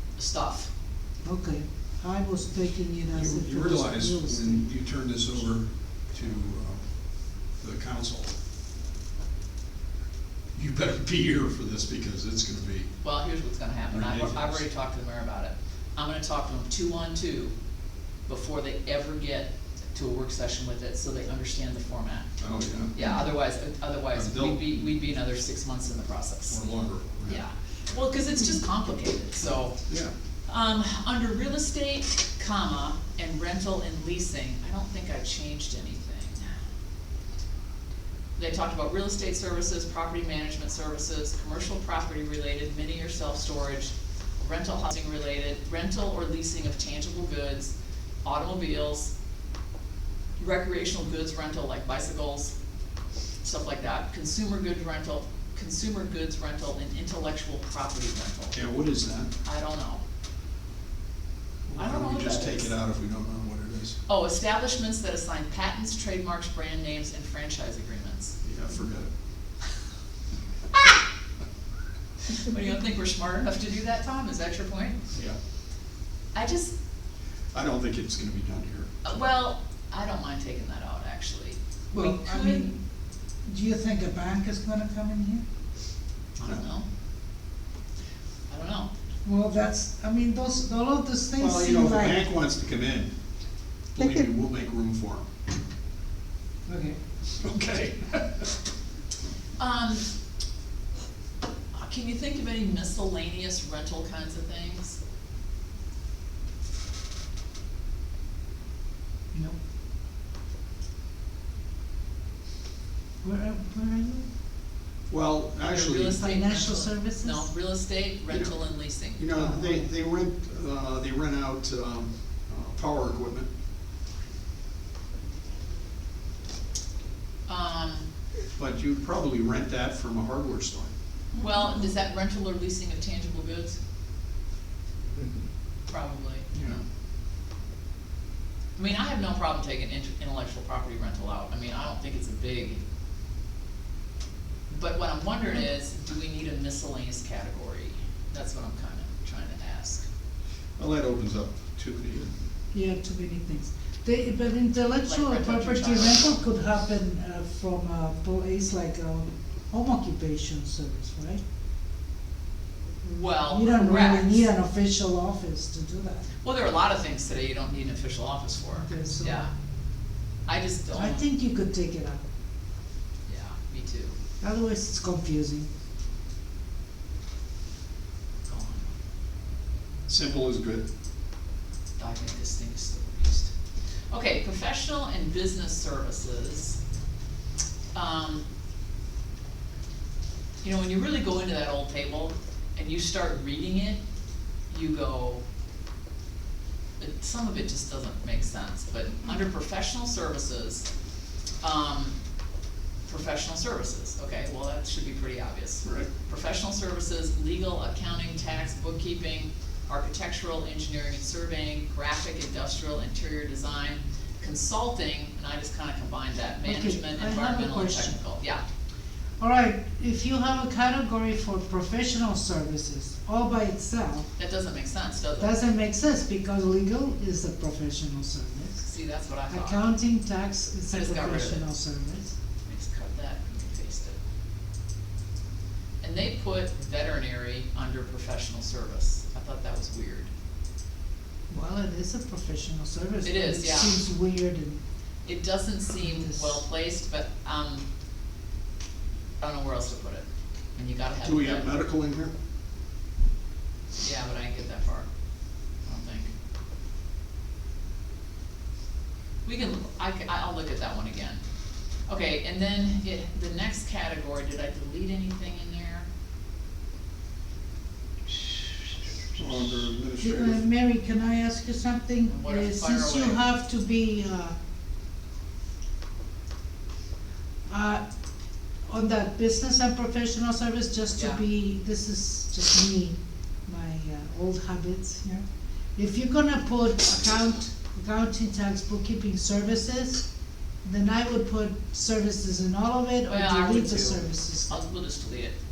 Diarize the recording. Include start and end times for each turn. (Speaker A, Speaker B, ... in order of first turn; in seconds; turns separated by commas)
Speaker A: 0.2-0.7, Speaker B: 1.2-4.6, Speaker C: 3.1-8.3, Speaker C: 10.5-12.9, Speaker A: 13.0-17.5, Speaker C: 13.9-14.6, Speaker A: 18.3-22.3, Speaker C: 22.4-22.9, Speaker A: 22.9-29.8, Speaker C: 24.1-24.7, Speaker C: 26.5-27.4, Speaker A: 30.5-36.5, Speaker A: 38.4-49.1, Speaker A: 50.4-52.5, Speaker A: 53.4-58.6, Speaker C: 58.5-59.3, Speaker A: 59.4-60.0, Speaker C: 61.7-64.0, Speaker A: 61.8-62.7, Speaker A: 64.1-68.4, Speaker C: 68.4-69.1, Speaker A: 72.3-75.0, Speaker A: 76.3-76.7, Speaker C: 77.5-78.9, Speaker A: 79.0-82.7, Speaker B: 81.9-82.8, Speaker B: 83.5-85.4, Speaker A: 86.4-86.9, Speaker A: 88.5-88.9, Speaker B: 89.2-92.2, Speaker C: 91.4-93.1, Speaker C: 94.0-95.3, Speaker B: 96.7-97.0, Speaker C: 97.4-98.5, Speaker A: 99.6-100.0, Speaker A: 101.7-105.0, Speaker B: 113.2-114.3, Speaker C: 115.1-116.2, Speaker A: 115.7-119.2, Speaker B: 116.1-117.5, Speaker C: 118.3-123.5, Speaker B: 119.3-119.9, Speaker A: 127.5-128.1, Speaker C: 128.6-130.9, Speaker A: 131.3-133.8, Speaker A: 135.9-136.5, Speaker C: 136.5-136.8, Speaker A: 138.8-142.8, Speaker A: 144.7-150.1, Speaker C: 150.8-152.3, Speaker B: 152.7-161.4, Speaker A: 155.0-156.4, Speaker A: 163.0-164.5, Speaker B: 163.5-166.3, Speaker A: 166.4-169.5, Speaker B: 168.8-169.4, Speaker A: 170.5-171.2, Speaker B: 170.9-172.2, Speaker A: 173.3-174.1, Speaker B: 174.4-175.7, Speaker A: 178.5-178.9, Speaker C: 180.1-180.8, Speaker A: 182.0-183.5, Speaker A: 184.1-186.8, Speaker A: 187.9-188.4, Speaker A: 190.6-194.0, Speaker A: 194.7-195.4, Speaker A: 197.0-200.9, Speaker A: 201.6-202.2, Speaker A: 203.1-218.6, Speaker C: 205.8-206.1, Speaker B: 216.6-218.2, Speaker B: 219.4-224.3, Speaker A: 224.4-225.6, Speaker B: 225.4-228.8, Speaker A: 228.8-229.8, Speaker B: 229.5-232.3, Speaker A: 230.9-231.7, Speaker A: 232.7-234.2, Speaker A: 236.0-240.3, Speaker B: 241.5-244.8, Speaker A: 243.2-244.0, Speaker A: 245.2-247.9, Speaker B: 246.0-246.6, Speaker A: 249.4-251.7, Speaker C: 251.2-252.3, Speaker A: 254.0-255.1, Speaker A: 255.8-256.3, Speaker A: 259.4-261.4, Speaker A: 262.1-266.1, Speaker C: 269.3-270.6, Speaker B: 270.2-274.5, Speaker A: 272.3-273.4, Speaker B: 277.7-278.0, Speaker B: 278.9-285.4, Speaker A: 281.1-281.4, Speaker B: 285.9-290.2, Speaker B: 290.8-294.8, Speaker A: 293.3-295.6